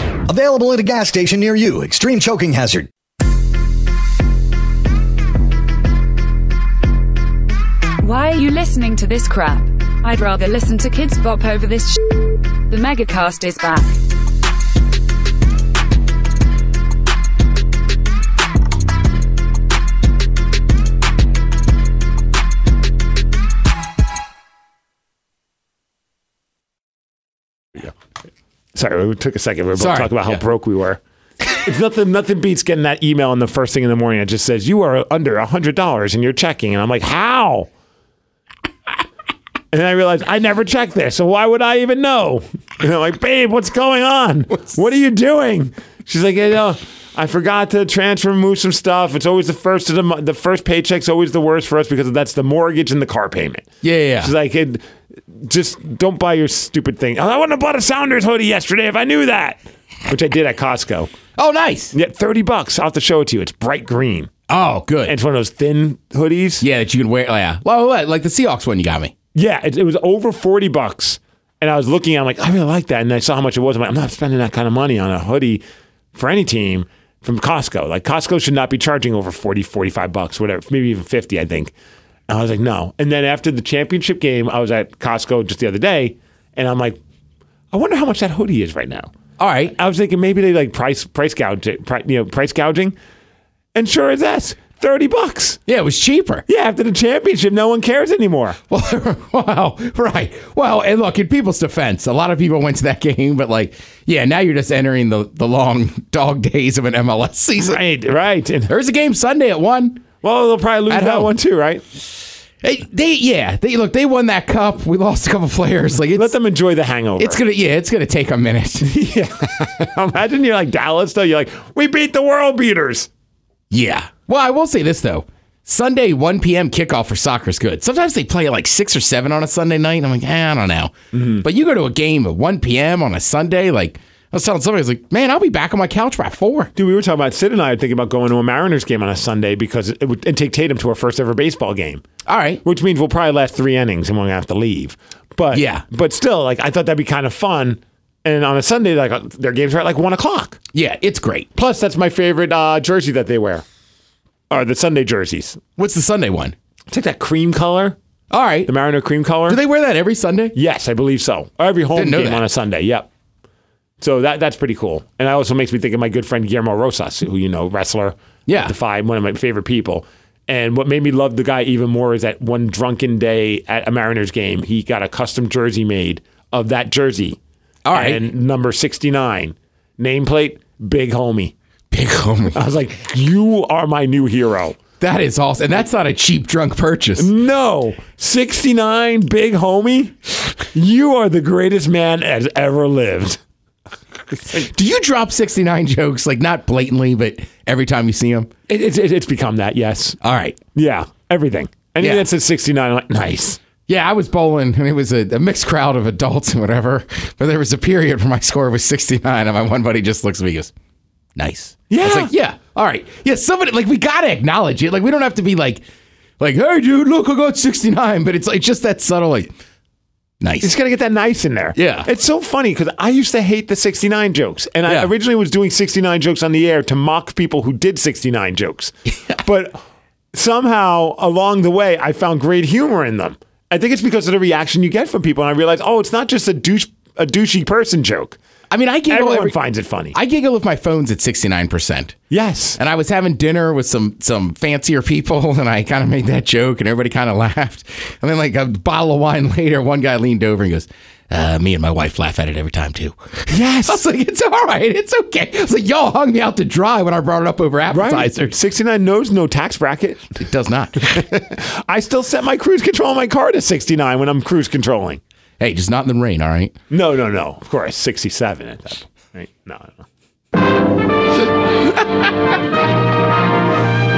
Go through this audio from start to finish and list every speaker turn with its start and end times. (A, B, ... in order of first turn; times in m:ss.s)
0:00.3-0:02.9 A
0:08.0-0:14.0 B
0:28.7-0:31.0 C
0:29.8-0:30.4 D
0:31.5-0:37.7 C
0:39.7-0:53.7 C
0:53.8-0:54.3 D
0:54.2-1:01.1 C
1:01.4-1:01.9 D
1:01.9-1:04.3 C
1:04.5-1:05.1 D
1:05.0-1:06.6 C
1:06.6-1:09.1 D
1:09.3-1:15.6 C
1:16.1-1:21.7 C
1:22.3-1:27.0 C
1:27.7-1:29.1 C
1:29.4-1:29.7 D
1:29.7-1:33.0 C
1:33.7-1:35.6 C
1:35.7-1:36.4 D
1:36.5-1:38.6 C
1:38.7-1:47.8 D
1:47.6-1:48.7 C
1:48.7-1:50.0 D
1:50.2-1:51.8 C
1:50.9-1:51.3 D
1:52.6-1:56.4 D
1:56.1-1:57.4 C
1:57.2-1:58.9 D
1:58.8-2:03.1 C
2:03.7-2:16.7 D
2:11.1-2:11.4 C
2:16.8-2:22.0 C
2:22.2-2:22.6 D
2:22.6-2:30.6 C
2:25.5-2:25.8 D
2:30.7-2:31.5 D
2:31.5-2:33.6 C
2:34.5-2:35.6 C
2:35.8-2:36.5 D
2:36.9-2:38.0 C
2:38.3-2:38.7 D
2:38.6-2:39.6 C
2:39.5-2:40.6 D
2:40.5-2:43.1 C
2:41.9-2:42.4 D
2:44.0-2:57.4 C
2:48.5-2:48.7 D
2:57.8-2:58.2 D
2:57.9-3:01.5 C
3:01.9-3:02.6 D
3:02.5-3:04.8 C
3:05.0-3:07.3 D
3:07.2-3:13.4 C
3:14.5-3:18.5 D
3:18.7-3:20.2 C
3:20.2-3:20.6 D
3:20.7-3:23.6 C
3:22.0-3:22.2 D
3:23.9-3:30.7 D
3:31.4-3:35.8 D
3:31.9-3:32.3 C
3:36.4-3:39.5 D
3:40.4-3:40.7 D
3:40.6-3:49.8 C
3:41.8-3:42.1 D
3:44.8-3:45.1 D
3:50.3-3:58.4 C
3:58.7-3:59.6 D
3:59.1-4:00.2 C
4:00.1-4:02.2 D
4:02.3-4:02.8 C
4:02.8-4:18.6 D
4:13.5-4:14.0 C
4:17.9-4:20.4 C
4:20.4-4:21.2 D
4:21.0-4:25.2 C
4:25.6-4:26.7 D
4:26.9-4:30.0 C